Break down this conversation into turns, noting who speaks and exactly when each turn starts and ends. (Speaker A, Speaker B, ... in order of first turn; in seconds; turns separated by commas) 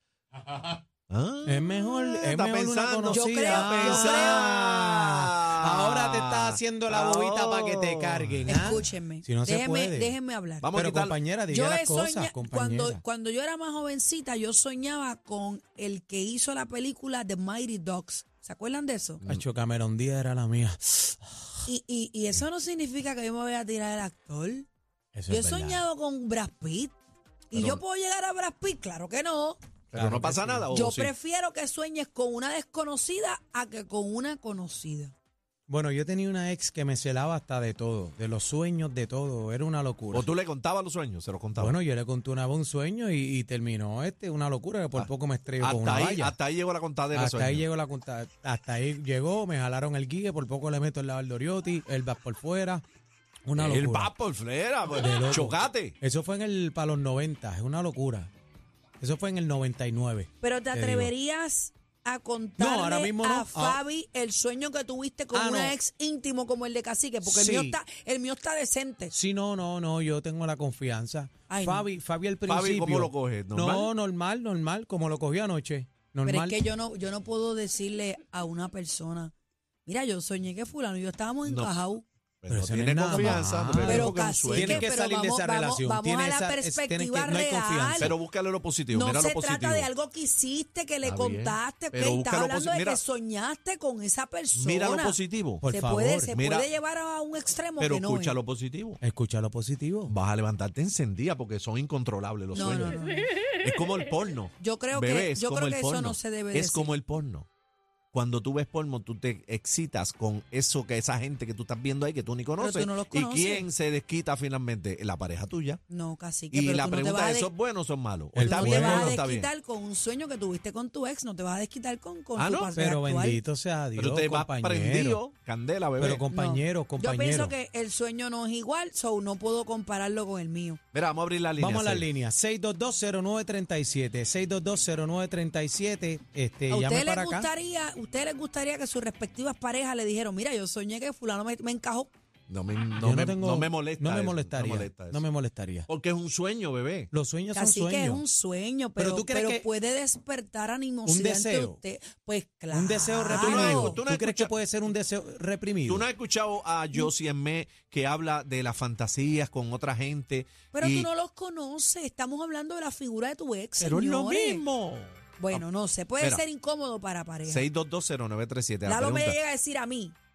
Speaker A: 1.1-8.5, Speaker B: 1.4-10.2, Speaker C: 3.1-4.5, Speaker C: 8.5-10.7, Speaker A: 10.6-11.1, Speaker B: 10.7-13.0, Speaker C: 11.5-19.2, Speaker B: 19.3-21.2, Speaker C: 21.6-24.7, Speaker B: 25.1-25.8, Speaker C: 25.3-26.9, Speaker C: 27.5-29.6, Speaker A: 27.5-27.8, Speaker A: 29.9-31.1, Speaker B: 29.9-30.6, Speaker C: 30.7-35.1, Speaker B: 35.7-40.3, Speaker A: 40.1-41.8, Speaker B: 41.6-46.3, Speaker A: 44.9-47.6, Speaker B: 47.1-52.8, Speaker B: 53.5-54.1, Speaker A: 53.6-55.9, Speaker B: 55.0-58.3, Speaker B: 59.0-61.1, Speaker C: 60.4-69.1, Speaker B: 62.6-63.8, Speaker B: 65.3-65.8, Speaker B: 67.2-67.8, Speaker B: 69.1-76.6, Speaker C: 71.5-71.9, Speaker A: 72.5-73.9, Speaker C: 76.2-79.3, Speaker C: 79.8-82.0, Speaker A: 81.4-81.7, Speaker A: 82.4-84.9, Speaker B: 82.5-88.1, Speaker C: 83.2-88.2, Speaker A: 88.0-89.9, Speaker C: 88.9-98.4, Speaker A: 91.0-93.0, Speaker A: 94.5-95.6, Speaker B: 95.6-96.3, Speaker A: 96.3-96.7, Speaker A: 97.8-99.0, Speaker B: 99.0-100.1, Speaker A: 100.1-103.0, Speaker C: 102.5-103.3, Speaker A: 103.6-107.5, Speaker C: 104.6-106.9, Speaker A: 108.1-115.8, Speaker C: 112.6-113.7, Speaker C: 115.9-117.5, Speaker A: 116.5-119.5, Speaker B: 118.3-119.2, Speaker C: 118.4-123.4, Speaker A: 122.4-122.7, Speaker B: 122.8-125.2, Speaker A: 124.0-126.2, Speaker B: 126.0-127.5, Speaker C: 126.3-130.8, Speaker A: 130.9-132.1, Speaker B: 131.6-137.5, Speaker C: 136.7-142.1, Speaker A: 142.5-145.2, Speaker B: 143.0-145.9, Speaker A: 145.9-147.1, Speaker B: 147.1-148.2, Speaker C: 147.5-154.0, Speaker B: 149.0-149.7, Speaker B: 151.1-151.8, Speaker B: 152.7-156.0, Speaker A: 153.3-154.5, Speaker A: 155.9-161.1, Speaker C: 160.7-164.6, Speaker A: 163.8-165.6, Speaker C: 165.4-167.6, Speaker A: 167.4-169.4, Speaker C: 168.8-170.1